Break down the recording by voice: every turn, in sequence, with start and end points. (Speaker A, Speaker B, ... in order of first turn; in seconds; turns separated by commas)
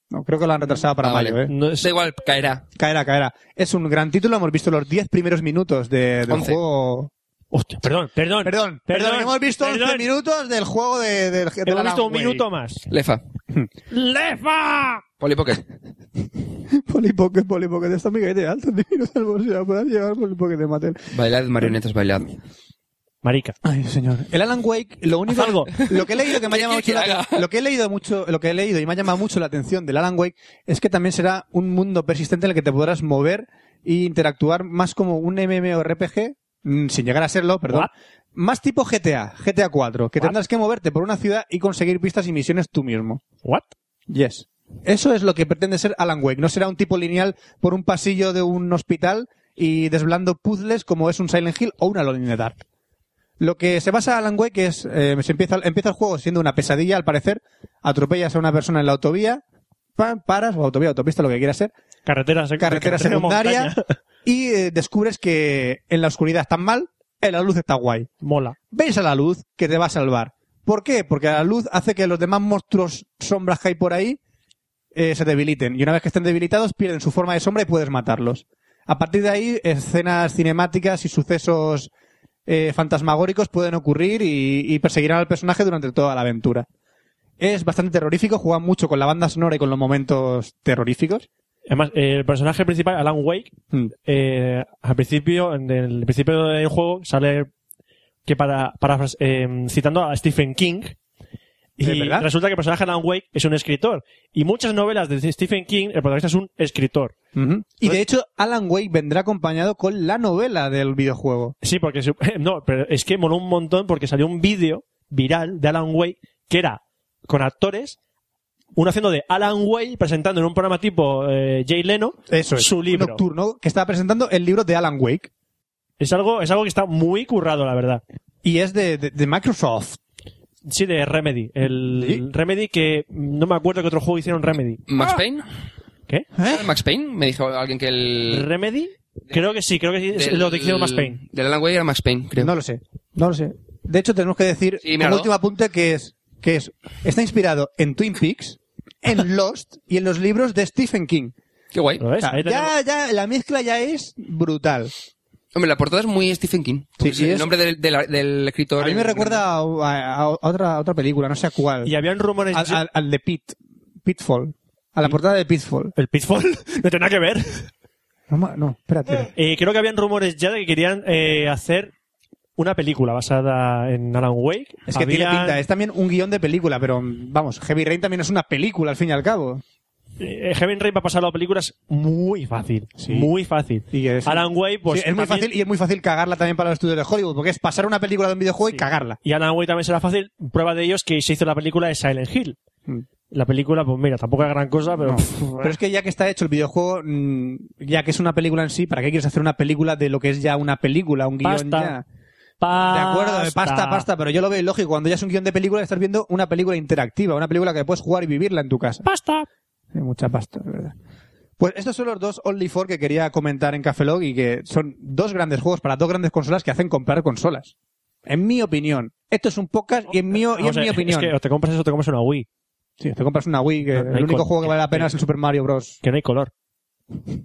Speaker A: 0.1-1.5, Speaker B: 1.0-2.6, Speaker C: 1.5-1.9, Speaker A: 2.8-7.1, Speaker B: 6.3-6.6, Speaker C: 7.5-10.1, Speaker A: 8.4-12.4, Speaker C: 11.6-12.8, Speaker B: 12.9-13.2, Speaker C: 13.9-15.0, Speaker B: 15.2-15.7, Speaker A: 16.7-21.0, Speaker B: 21.1-22.3, Speaker C: 23.2-23.6, Speaker A: 23.6-43.2, Speaker C: 25.3-25.7, Speaker B: 25.8-27.4, Speaker A: 44.1-52.6, Speaker A: 53.4-59.4, Speaker A: 60.0-61.7, Speaker C: 62.0-64.0, Speaker A: 62.6-63.7, Speaker A: 64.2-68.1, Speaker C: 68.2-68.5, Speaker A: 68.7-74.2, Speaker A: 74.9-81.9, Speaker A: 82.5-86.7, Speaker A: 87.4-91.3, Speaker C: 91.7-93.5, Speaker C: 94.0-97.5, Speaker C: 98.3-101.0, Speaker C: 101.8-107.1, Speaker A: 101.8-102.3, Speaker A: 107.3-111.5, Speaker C: 111.6-118.0, Speaker C: 118.8-123.2, Speaker A: 122.3-125.3, Speaker C: 126.0-128.0, Speaker A: 128.4-130.0, Speaker C: 130.7-135.1, Speaker A: 131.9-132.2, Speaker B: 134.9-135.4, Speaker A: 136.4-136.7, Speaker B: 136.4-138.5, Speaker C: 138.3-141.2, Speaker B: 140.1-142.5, Speaker A: 142.4-151.3, Speaker B: 144.8-145.3, Speaker B: 151.7-152.1, Speaker C: 152.0-152.7, Speaker A: 152.2-154.9, Speaker B: 155.6-159.4, Speaker A: 157.0-157.5, Speaker A: 158.8-161.9, Speaker C: 161.8-162.8, Speaker A: 162.5-165.9, Speaker C: 165.9-167.7, Speaker A: 168.3-169.3, Speaker C: 169.3-171.9, Speaker C: 172.6-175.6, Speaker A: 174.9-179.6, Speaker C: 180.2-185.5, Speaker A: 183.0-183.3, Speaker A: 183.9-189.2, Speaker C: 188.7-192.6, Speaker C: 193.3-195.8, Speaker A: 195.0-202.0, Speaker C: 201.4-201.9, Speaker C: 202.6-204.1, Speaker A: 202.9-209.1, Speaker C: 209.0-209.5, Speaker A: 209.9-210.9, Speaker A: 211.6-217.7, Speaker A: 218.3-221.3, Speaker C: 220.3-222.4, Speaker A: 223.0-226.0, Speaker C: 223.9-225.1, Speaker C: 226.0-226.5